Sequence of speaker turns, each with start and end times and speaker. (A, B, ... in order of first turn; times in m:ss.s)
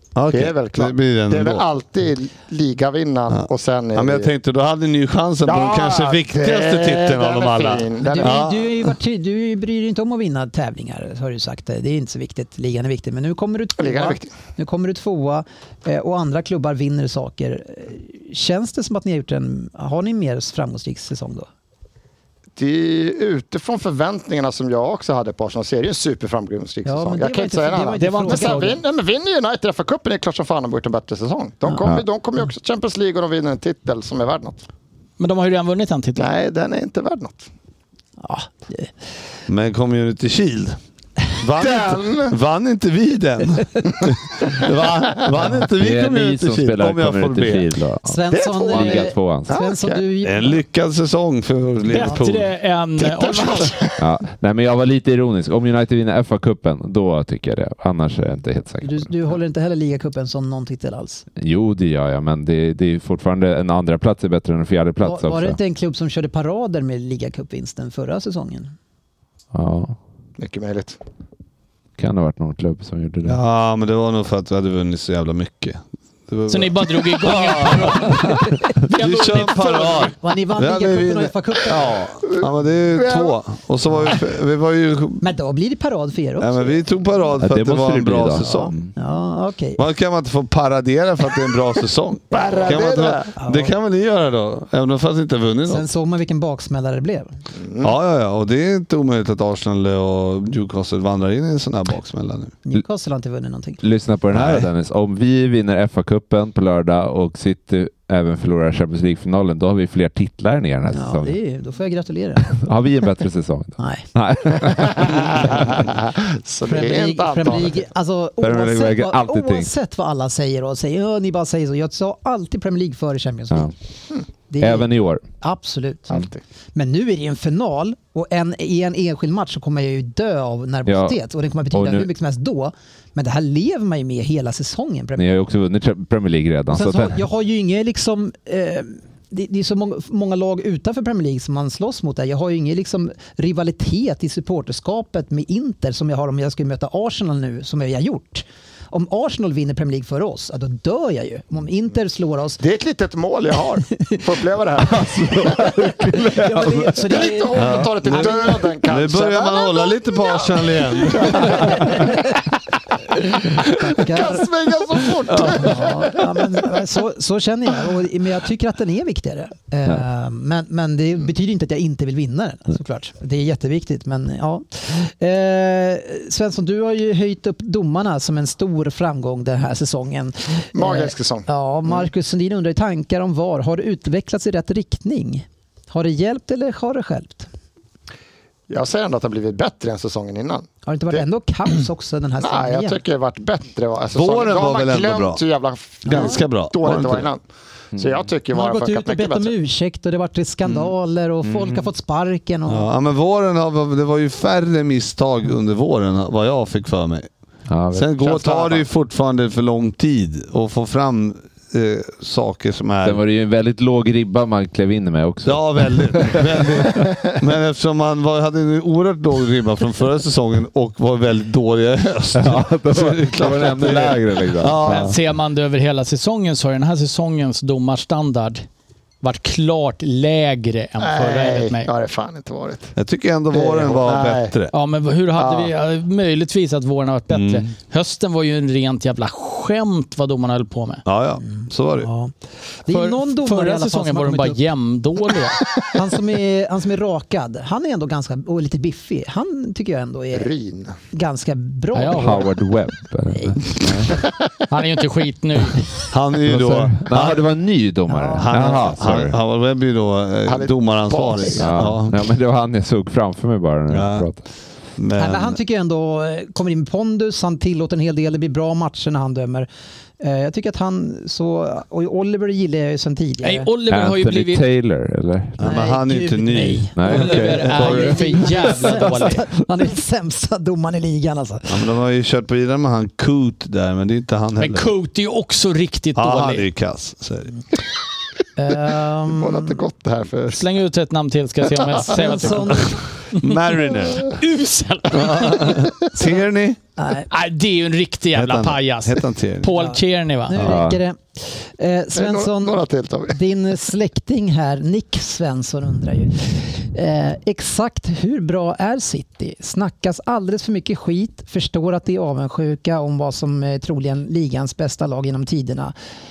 0:00.2-0:01.7 A
0:00.3-0:04.3 B
0:03.3-0:08.7 A
0:05.5-0:08.5 B
0:08.0-0:21.5 C
0:13.8-0:14.3 B
0:22.6-0:34.6 B
0:26.8-0:28.8 C
0:28.0-0:28.8 D
0:35.2-0:36.3 D
0:36.2-0:37.5 B
0:38.2-0:38.9 C
0:39.5-0:40.8 A
0:41.4-0:47.7 A
0:41.6-0:42.4 B
0:45.6-0:49.6 E
0:48.0-0:50.6 C
0:48.3-0:50.0 B
0:50.2-0:52.5 A
0:51.9-0:53.8 D
0:53.2-0:54.0 B
0:54.0-0:59.1 E
0:58.8-1:01.3 C
1:01.4-1:05.6 E
1:05.0-1:08.7 C
1:09.5-1:10.0 E
1:10.4-1:11.0 B
1:12.0-1:13.4 E
1:13.2-1:25.2 A
1:16.5-1:20.2 D
1:20.2-1:22.0 C
1:23.0-1:23.3 B
1:25.2-1:26.8 C
1:26.4-1:28.7 A
1:27.4-1:28.9 E
1:28.4-1:29.8 C
1:29.8-1:35.9 A
1:32.3-1:33.3 B
1:33.4-1:33.7 C
1:35.7-1:37.4 C
1:37.6-1:37.9 B
1:37.8-1:42.6 A
1:42.7-1:43.8 C
1:43.8-1:51.4 E
1:44.3-1:44.7 A
1:50.9-1:52.6 C
1:52.4-1:55.7 E
1:53.8-1:54.1 C
1:54.8-1:57.9 B
1:56.6-2:03.7 C
1:58.4-1:59.7 E
2:04.5-2:06.2 C
2:04.6-2:05.2 E
2:06.1-2:06.4 B
2:06.8-2:15.4 C
2:10.9-2:11.2 E
2:11.7-2:12.1 E
2:15.2-2:17.2 E
2:16.7-2:32.6 C
2:32.6-2:35.7 B
2:34.8-2:37.0 E
2:36.3-2:38.6 C
2:37.0-2:42.0 B
2:37.6-2:41.8 A
2:41.3-2:42.4 C
2:43.8-2:44.5 C
2:43.9-2:46.3 B
2:45.3-2:45.6 A
2:45.4-3:07.5 C
3:00.7-3:02.0 B
3:08.7-3:11.2 B
3:10.8-3:13.0 C
3:12.4-3:17.4 B
3:14.1-3:15.4 A
3:16.1-3:16.4 C
3:16.1-3:17.3 A
3:18.0-3:19.5 B
3:18.5-3:22.9 C
3:21.5-3:21.8 E
3:22.7-3:27.3 A
3:27.7-3:28.2 E
3:27.9-3:33.2 A
3:28.2-3:28.8 B
3:33.0-3:37.1 E
3:35.4-3:45.2 A
3:42.4-3:45.2 E
3:44.8-3:48.6 D
3:49.2-3:51.9 D
3:51.0-3:52.9 B
3:53.0-3:54.7 A
3:53.5-3:54.5 B
3:54.7-4:01.0 D
3:55.4-3:55.7 B
3:57.3-3:57.7 A
4:01.1-4:02.1 A
4:01.5-4:02.3 C
4:02.8-4:04.6 C
4:02.9-4:05.6 D
4:05.9-4:10.5 C
4:10.3-4:11.0 B
4:11.1-4:12.5 C
4:11.9-4:12.4 D
4:12.1-4:14.1 E
4:13.3-4:13.6 C
4:14.7-4:16.0 D
4:16.1-4:17.4 A
4:16.5-4:19.4 E
4:18.1-4:18.8 C
4:18.4-4:22.2 A
4:20.5-4:21.8 B
4:21.6-4:24.4 E
4:23.9-4:24.3 A
4:25.0-4:25.6 A
4:25.2-4:29.7 C
4:30.2-4:33.7 C
4:33.4-4:34.6 D
4:33.9-4:35.6 E
4:35.6-4:38.4 A
4:35.6-4:41.8 C
4:37.0-4:38.0 E
4:37.1-4:39.4 D
4:41.7-4:44.9 A
4:44.6-4:46.6 D
4:46.2-4:47.5 A
4:48.6-4:49.8 C
4:49.4-4:50.6 B
4:50.5-4:55.9 D
4:52.1-4:53.0 C
4:53.4-4:54.4 A
4:55.1-4:56.8 A
4:57.0-4:57.3 C
4:57.3-5:00.6 D
4:58.3-4:59.7 A
4:59.7-5:16.0 C
5:00.6-5:01.0 E
5:02.1-5:03.4 B